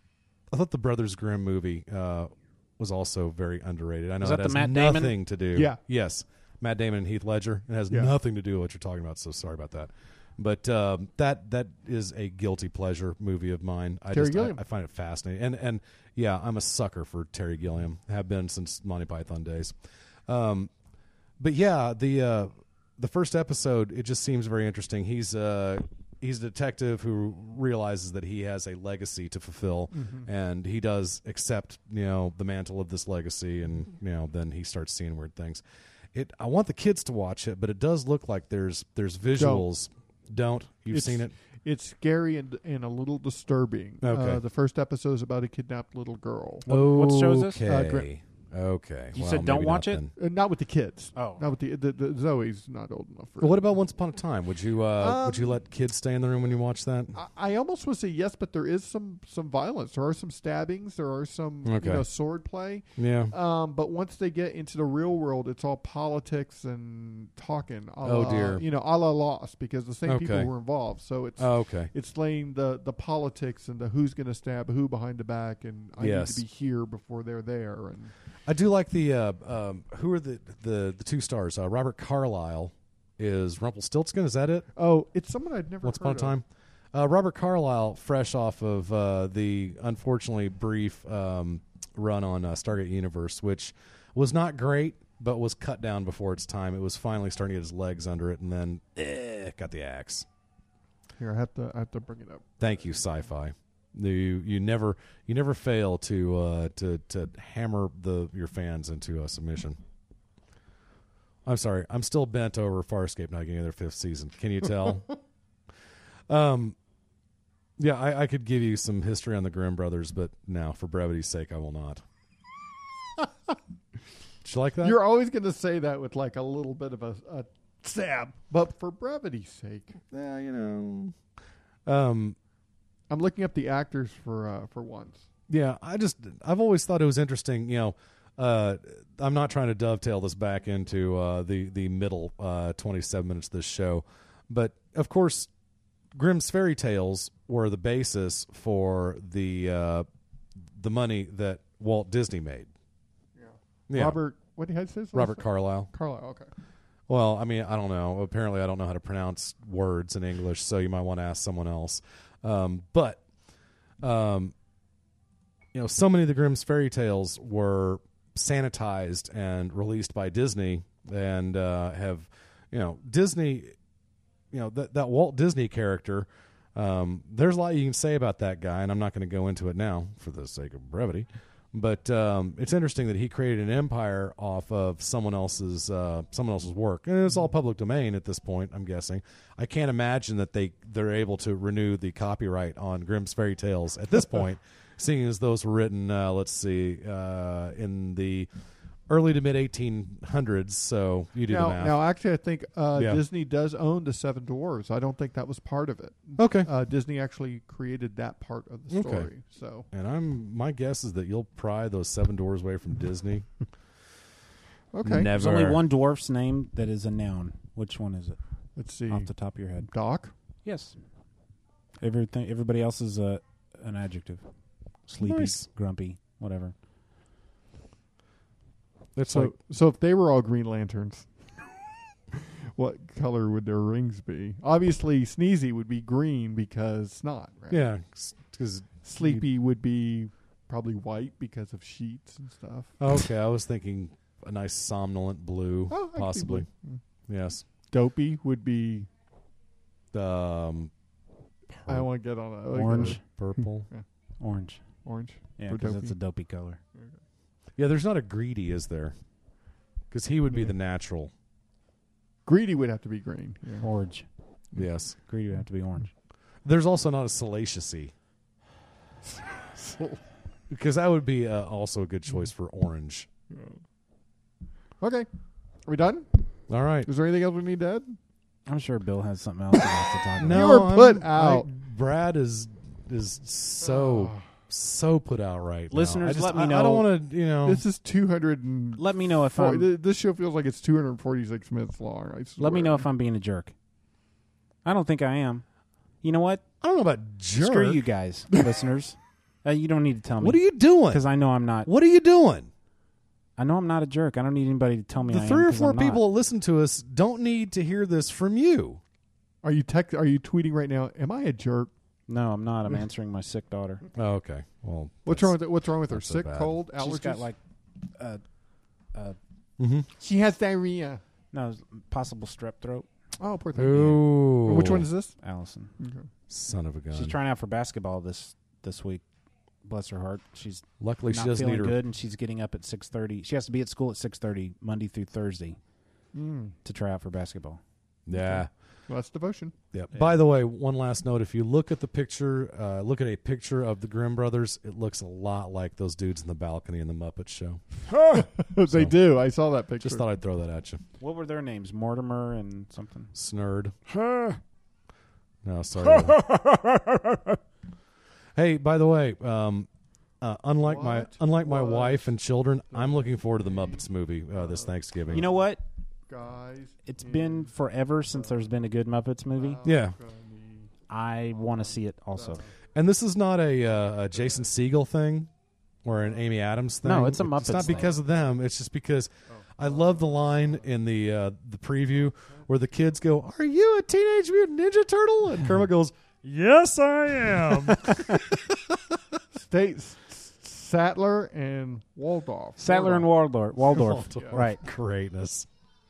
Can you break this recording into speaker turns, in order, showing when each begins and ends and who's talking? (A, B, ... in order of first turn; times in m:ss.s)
0:00.5-0:19.8 A
0:04.2-0:05.2 B
0:05.5-0:05.8 C
0:14.1-0:14.6 C
0:20.3-0:20.7 A
0:21.4-0:35.6 A
0:29.9-0:30.3 C
0:36.1-0:41.3 A
0:39.4-0:39.7 C
0:40.9-0:46.7 C
0:44.0-0:44.4 A
0:46.7-0:47.6 B
0:46.7-0:50.1 A
0:47.7-0:48.1 C
0:49.1-0:50.0 B
0:50.2-0:53.6 C
0:51.1-0:51.4 B
0:53.4-0:57.2 A
0:55.0-0:55.6 C
0:57.1-1:18.1 C
1:01.6-1:02.0 A
1:03.0-1:03.3 A
1:08.0-1:08.6 A
1:10.1-1:10.5 A
1:11.4-1:11.9 A
1:16.0-1:16.4 A
1:18.5-1:24.7 A
1:24.8-1:26.4 C
1:25.8-1:40.3 A
1:41.2-1:42.9 C
1:42.6-1:49.8 A
1:51.4-1:55.1 A
1:56.3-1:56.8 A
1:57.8-2:02.0 A
2:04.4-2:05.0 A
2:04.8-2:10.0 C
2:10.1-2:11.2 A
2:11.9-2:12.4 A
2:13.1-2:15.3 C
2:15.5-2:25.5 A
2:26.1-2:30.1 A
2:30.8-2:32.7 A
2:33.4-2:36.5 C
2:33.9-2:34.2 A
2:35.1-2:35.9 A
2:37.1-2:43.2 A
2:44.0-2:44.5 A
2:45.7-2:53.8 A
2:54.5-3:18.5 A
3:19.1-3:22.0 A
3:21.5-3:29.9 C
3:23.0-3:23.2 A
3:26.4-3:26.7 A
3:28.9-3:29.3 A
3:29.9-3:33.5 A
3:34.9-3:35.3 C
3:35.0-3:35.8 A
3:35.3-3:38.4 B
3:38.8-3:40.3 C
3:39.1-3:39.9 B
3:40.6-3:41.0 B
3:42.0-3:44.4 B
3:45.1-3:46.7 B
3:45.2-3:45.7 A
3:49.2-3:49.5 A
3:49.3-3:51.3 C
3:52.8-3:57.8 C
3:57.7-3:59.4 A
3:59.0-4:03.1 C
4:03.0-4:06.7 A
4:05.9-4:07.0 C
4:07.3-4:07.6 A
4:07.9-4:09.1 C
4:10.1-4:10.9 A
4:11.8-4:14.0 C
4:12.7-4:13.2 B
4:12.9-4:13.9 A
4:14.4-4:14.8 B
4:15.0-4:16.1 C
4:15.6-4:16.8 B
4:17.8-4:19.1 A
4:20.1-4:21.3 A
4:22.5-4:23.9 C
4:23.8-4:24.3 B
4:24.7-4:25.2 A
4:25.3-4:26.1 B
4:26.6-4:28.1 A
4:29.4-4:30.2 C
4:30.7-4:33.3 A
4:33.5-4:33.8 C
4:35.0-4:35.3 C
4:35.9-4:38.2 C
4:36.7-4:37.1 A
4:38.7-4:40.8 B
4:40.4-4:47.8 A
4:40.5-4:41.7 C
4:43.8-4:44.4 C
4:45.9-4:47.1 B
4:47.6-4:53.1 C
4:49.0-4:49.9 B
4:52.6-4:53.7 B
4:54.8-4:55.6 B
4:56.2-4:56.6 B
4:56.8-4:58.0 A
4:57.6-5:01.9 B
5:00.4-5:01.2 A
5:01.8-5:02.7 A
5:03.6-5:06.2 B
5:05.3-5:09.0 A
5:09.6-5:11.9 C
5:12.3-5:14.0 B
5:14.1-5:16.7 A
5:15.3-5:17.5 C
5:17.0-5:17.6 B
5:18.1-5:18.4 B
5:19.8-5:20.1 A
5:20.2-5:21.2 C
5:21.5-5:23.1 B
5:23.4-5:25.4 C
5:23.8-5:25.1 A
5:25.4-5:25.9 B
5:26.0-5:26.3 C
5:26.5-5:27.4 A
5:27.1-5:29.2 B
5:29.8-5:35.8 B
5:31.0-5:32.0 A
5:36.3-5:36.8 C
5:36.8-5:37.8 B
5:38.3-5:38.7 A
5:39.1-5:39.8 C
5:39.9-5:47.8 A
5:48.2-5:50.3 C
5:48.9-5:49.3 A
5:50.0-5:51.0 A
5:51.2-5:53.3 B
5:53.3-5:54.0 A
5:55.6-5:56.7 A
5:58.6-5:59.9 A
6:00.4-6:05.5 A
6:00.8-6:02.3 C
6:02.9-6:05.6 C
6:05.3-6:05.8 B
6:06.3-6:07.7 C
6:07.1-6:09.8 B
6:08.3-6:08.7 C
6:09.5-6:10.9 C
6:09.8-6:10.2 A
6:11.1-6:12.6 B
6:11.5-6:12.7 C
6:12.9-6:15.5 A
6:16.0-6:29.4 A
6:17.0-6:18.1 B
6:19.5-6:20.8 C
6:27.9-6:28.4 B
6:29.6-6:33.3 C
6:32.8-6:34.8 B
6:33.9-6:35.7 A
6:34.4-6:34.6 C